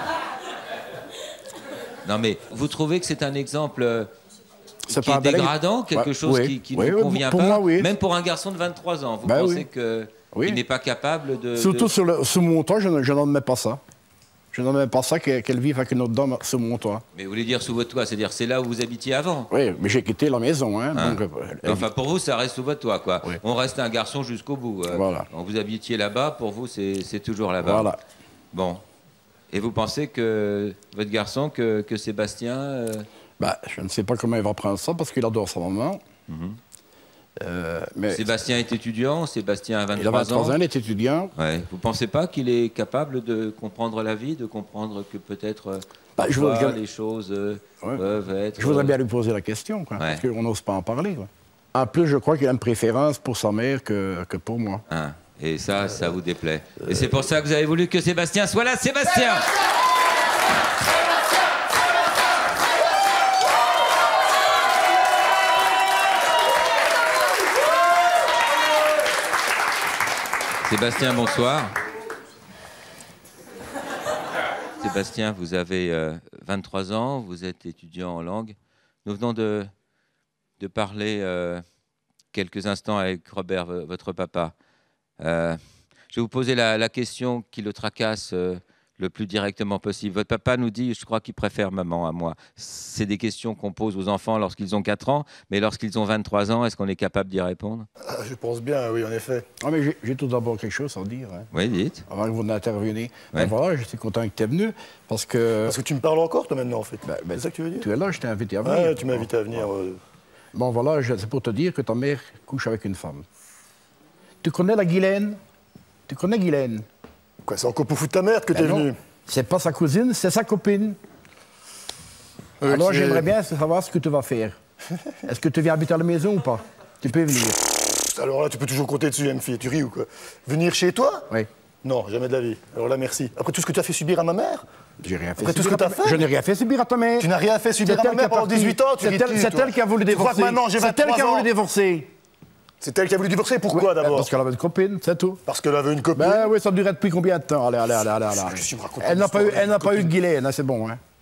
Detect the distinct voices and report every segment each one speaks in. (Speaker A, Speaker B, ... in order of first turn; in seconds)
Speaker A: 2.0-4.1, 4.9-11.9, 17.1-19.5, 20.9-28.0, 28.5-28.8, 29.5-33.1, 36.3-36.6, 38.1-40.6, 41.4-49.0, 54.9-59.5, 70.7-71.7, 74.8-79.7, 80.6-81.6, 82.3-84.5, 85.2-85.6, 86.1-97.9, 101.5-102.0
Speaker B: 4.9-7.9, 9.2-9.7, 10.3-10.6, 11.6-13.8, 14.5-17.0, 19.5-21.9, 24.9-25.3, 27.6-28.0, 33.4-36.0, 37.4-38.3, 40.0-41.3, 46.2-46.8, 48.6-54.8, 99.6-101.5, 102.1-105.8, 107.1-109.7, 110.5-113.2, 114.4-115.4, 116.1-116.9, 118.5-121.0, 122.6-124.6, 125.2-127.6, 135.0-142.1, 143.7-145.4, 146.2-151.0
Speaker C: 98.1-99.5, 105.7-107.9, 108.6-110.0, 117.5-119.0, 122.6-123.3, 128.1-131.3, 131.8-134.6, 135.4-136.2, 137.2-141.5, 142.8-144.3, 145.5-146.5, 148.4-150.1